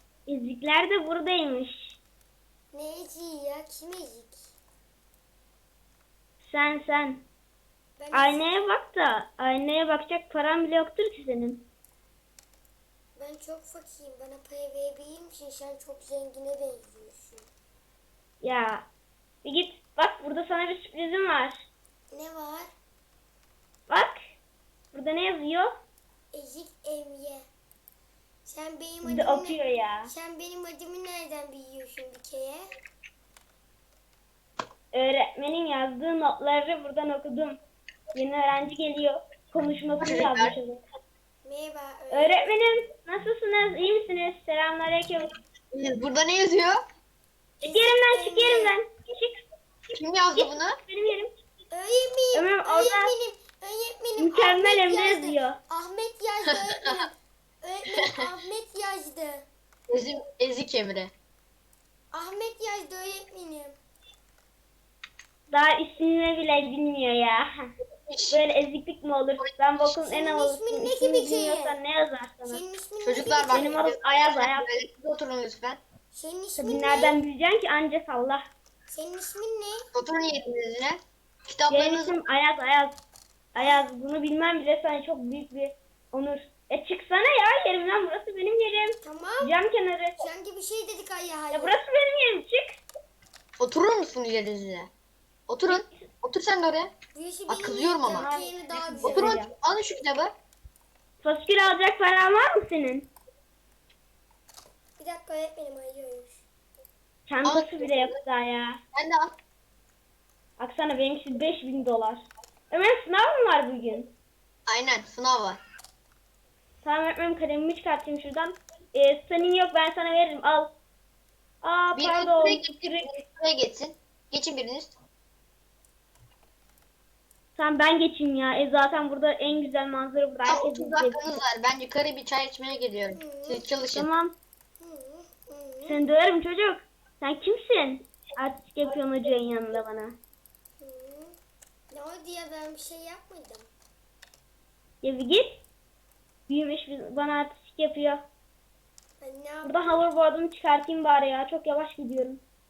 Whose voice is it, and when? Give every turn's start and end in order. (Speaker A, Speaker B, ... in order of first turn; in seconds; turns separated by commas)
Speaker A: 0.2-2.0, Speaker B: 2.7-4.5, Speaker A: 6.4-7.2, Speaker B: 8.0-8.5, Speaker A: 8.1-11.6, Speaker B: 13.2-17.5, Speaker A: 18.4-18.9, Speaker A: 19.4-21.6, Speaker B: 22.1-22.7, Speaker A: 23.9-24.2, Speaker A: 24.9-25.7, Speaker B: 26.3-27.4, Speaker B: 28.4-32.6, Speaker A: 29.0-30.1, Speaker A: 34.9-37.6, Speaker A: 38.1-40.8, Speaker C: 40.0-40.5, Speaker B: 41.4-42.6, Speaker A: 42.1-45.3, Speaker C: 45.7-46.8, Speaker B: 47.6-48.8, Speaker A: 47.6-49.4, Speaker C: 49.9-50.8, Speaker A: 50.3-51.4, Speaker B: 51.7-59.4, Speaker A: 52.3-53.1, Speaker A: 54.2-55.6, Speaker C: 58.0-58.2, Speaker C: 59.9-61.1, Speaker B: 62.1-63.8, Speaker A: 65.5-67.7, Speaker C: 68.1-68.4, Speaker A: 68.3-72.6, Speaker B: 70.0-71.8, Speaker B: 72.4-73.8, Speaker C: 73.0-75.8, Speaker A: 73.5-74.7, Speaker B: 76.1-77.2, Speaker A: 76.6-78.5, Speaker B: 78.9-79.9, Speaker C: 79.9-82.2, Speaker A: 81.7-83.0, Speaker A: 83.5-90.2, Speaker B: 83.5-83.9, Speaker B: 89.0-89.5, Speaker B: 90.2-91.8, Speaker A: 91.5-92.8, Speaker C: 93.6-94.9, Speaker C: 95.5-96.9, Speaker A: 95.7-96.1, Speaker B: 97.1-99.3, Speaker C: 97.5-98.3, Speaker A: 98.1-99.5, Speaker C: 99.0-100.3, Speaker A: 101.2-103.1, Speaker B: 105.0-106.4, Speaker A: 107.3-108.8, Speaker C: 107.4-108.1, Speaker C: 108.9-109.3, Speaker A: 110.6-114.1, Speaker C: 114.7-115.6, Speaker A: 116.8-120.7, Speaker A: 121.6-123.0, Speaker C: 121.9-124.9, Speaker A: 127.5-131.2, Speaker C: 130.4-134.1, Speaker B: 133.1-133.7, Speaker A: 133.9-134.3, Speaker B: 134.8-136.0, Speaker A: 135.8-140.2, Speaker B: 140.8-141.3, Speaker B: 141.9-143.7, Speaker A: 145.0-145.6, Speaker A: 146.5-148.2, Speaker B: 149.2-150.0, Speaker A: 149.6-152.4